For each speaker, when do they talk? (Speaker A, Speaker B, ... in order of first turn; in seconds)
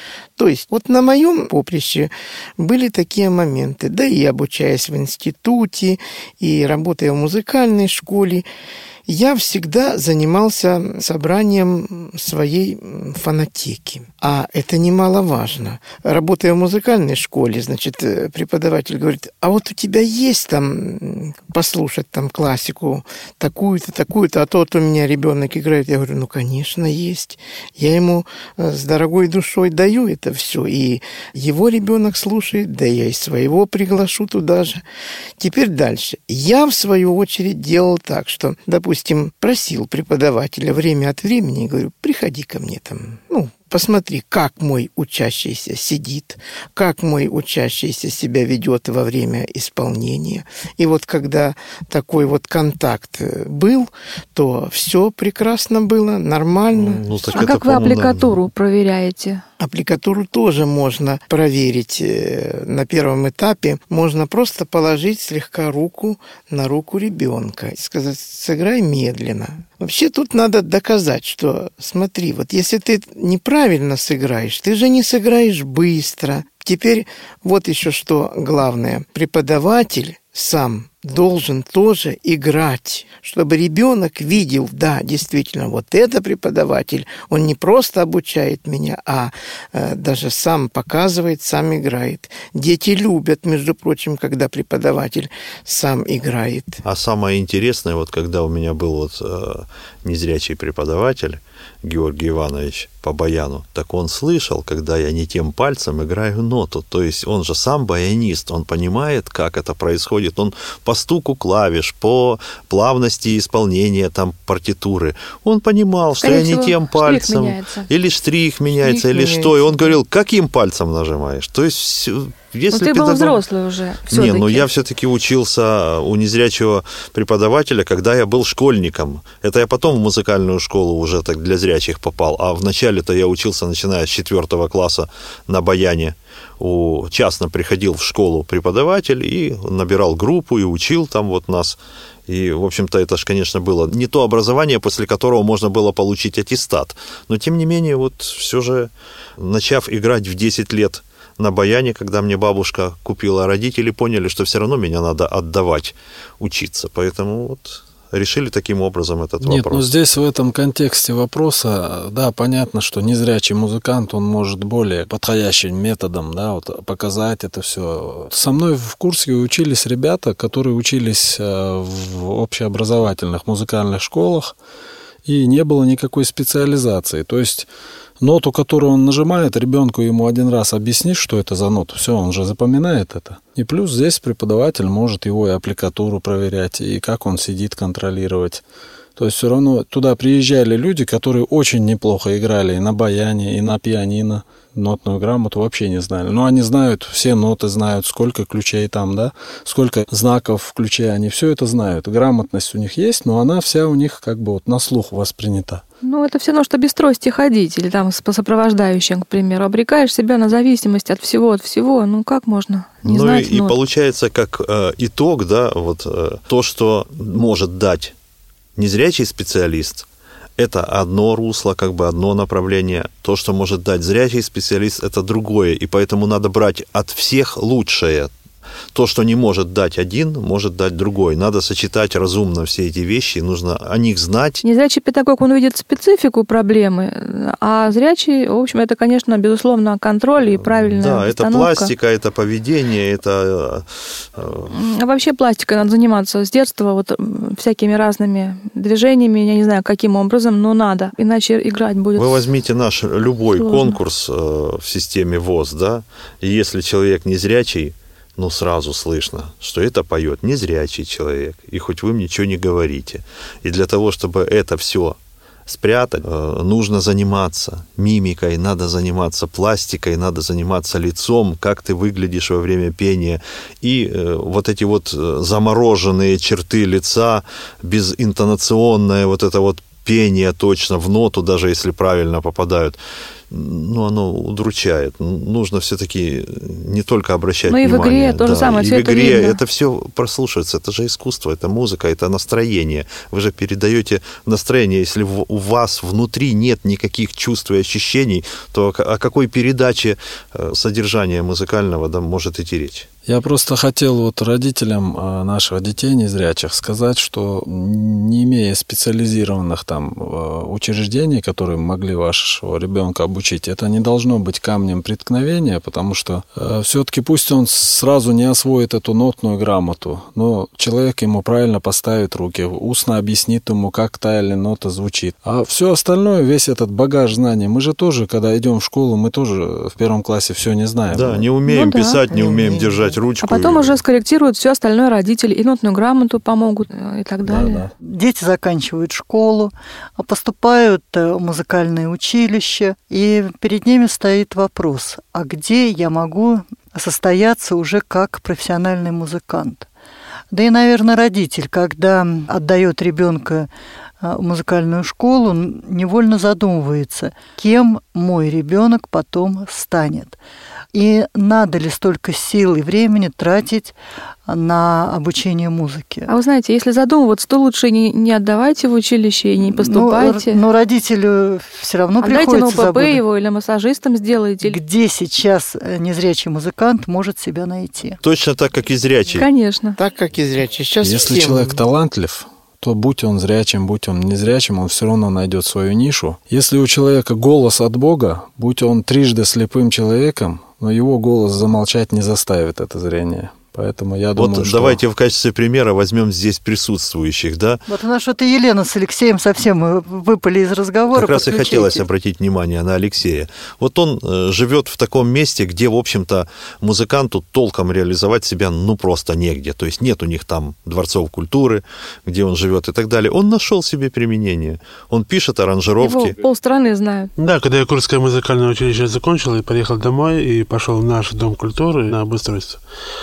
Speaker A: 0.4-8.4, 9.1-34.8, 35.4-57.5, 59.6-96.8, 118.7-120.0, 332.3-333.2, 380.0-381.8
Speaker B: 56.7-58.3, 96.8-123.4, 124.1-159.9, 213.0-218.1, 218.8-220.1, 220.6-228.3, 228.9-234.6, 240.4-244.7, 252.2-283.0, 283.5-303.1, 331.1-334.0, 378.2-379.5, 394.4-397.8, 401.1-416.3
Speaker C: 57.3-59.4, 116.2-117.9, 122.7-124.7, 206.0-213.7, 234.6-241.9, 244.7-252.4, 253.6-254.0, 287.7-289.6, 331.6-332.2, 333.4-337.8, 366.3-370.6, 372.2-374.8, 379.4-380.0, 416.0-417.3
Speaker D: 159.4-174.5, 175.2-177.7, 178.2-188.6, 189.2-205.8, 303.3-331.5, 337.4-337.9, 381.0-395.0
Speaker E: 338.0-349.9, 350.5-353.7, 354.2-360.4, 360.9-363.9, 364.5-366.3, 369.7-373.2, 374.6-378.2, 397.9-402.0
Speaker F: 417.4-422.8